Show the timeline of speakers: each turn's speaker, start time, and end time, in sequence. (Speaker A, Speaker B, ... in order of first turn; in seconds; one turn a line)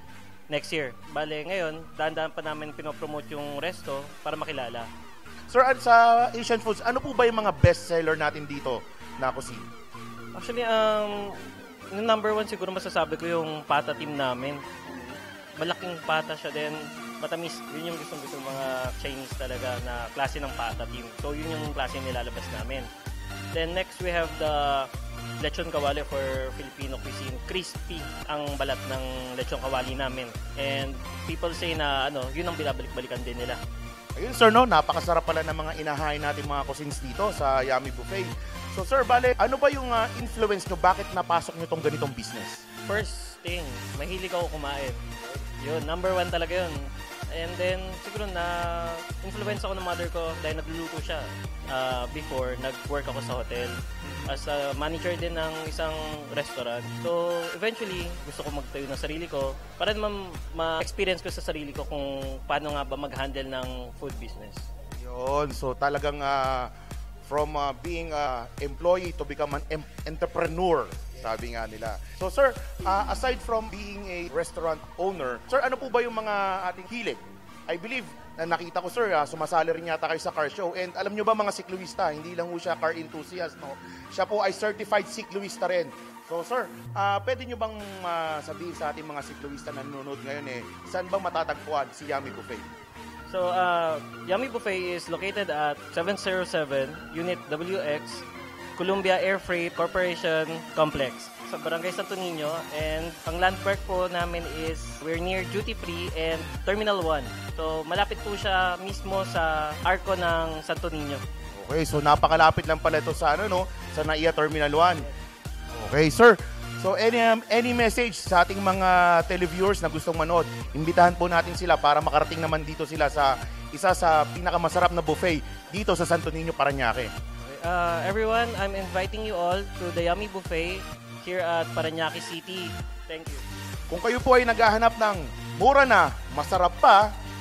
Speaker A: 0.5-4.9
Speaker B: 5.5-9.7
Speaker A: 10.3-22.9
Speaker A: 23.5-33.6
Speaker B: 34.1-42.6
Speaker A: 42.9-64.7
Speaker B: 65.0-66.7
Speaker B: 67.2-92.7
Speaker A: 93.3-111.2
Speaker B: 111.5-115.1
Speaker B: 115.7-127.1
Speaker A: 127.4-133.4
Speaker B: 133.9-137.1